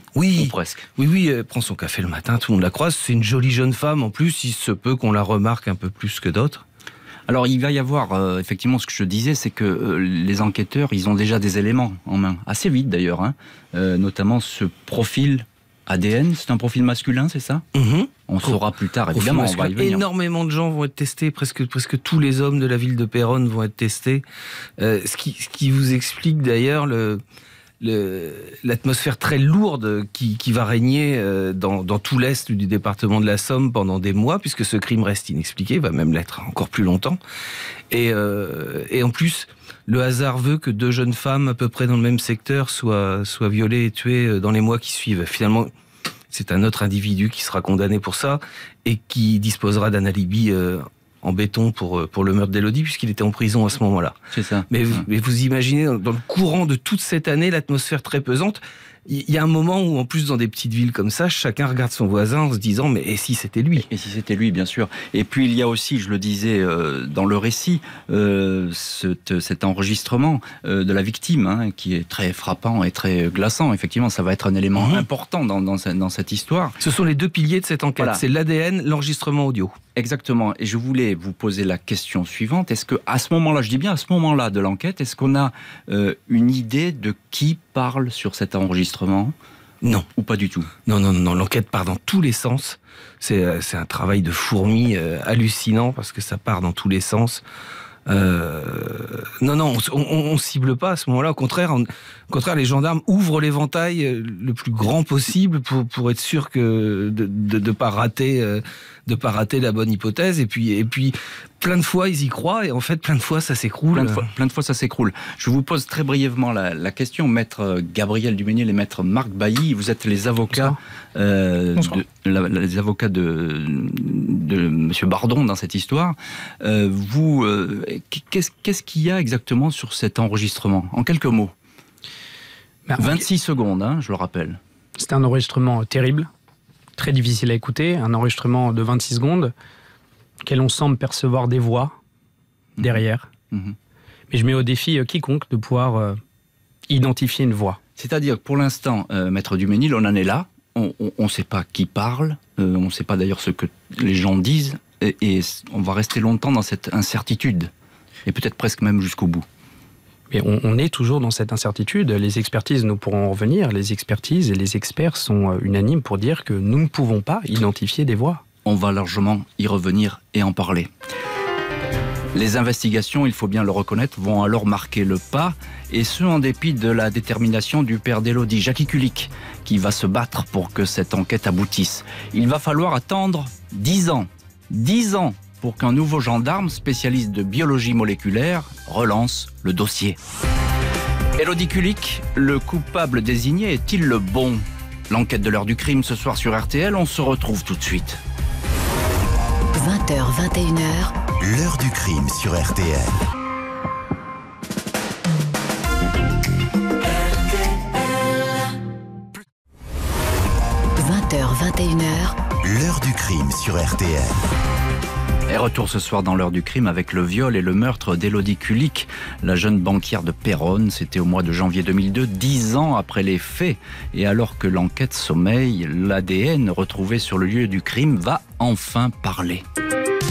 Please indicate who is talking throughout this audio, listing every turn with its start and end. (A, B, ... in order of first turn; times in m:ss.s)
0:00.2-0:06.6 A
0:00.4-0:00.9 B
0:07.3-0:17.6 B
0:17.8-0:24.2 A
0:18.3-0:20.1 B
0:24.8-0:27.2 A
0:27.8-0:37.2 A
0:37.9-0:45.7 A
0:46.3-0:54.2 A
0:54.3-0:55.0 B
0:54.7-1:03.9 A
1:03.8-1:16.8 B
1:14.8-1:15.0 A
1:16.8-1:19.8 A
1:20.0-1:29.4 B
1:30.2-1:30.7 B
1:30.9-1:37.4 A
1:38.1-1:54.3 A
1:53.9-2:11.5 B
2:12.9-2:13.2 C
2:13.0-2:14.6 B
2:15.0-2:16.3 C
2:17.0-2:19.5 C
2:20.4-2:22.0 C
2:22.8-2:23.3 C
2:23.5-2:23.8 B
2:24.3-2:26.2 C
2:26.9-2:27.8 C
2:28.0-2:37.7 B
2:38.3-2:39.5 B
2:40.3-2:48.4 C
2:48.6-2:50.9 B
2:52.3-3:10.2 B
3:11.4-3:18.2 B
3:19.7-3:21.2 D
3:21.4-3:23.2 E
3:31.0-3:32.4 D
3:32.6-3:34.4 E
3:35.5-3:49.6 B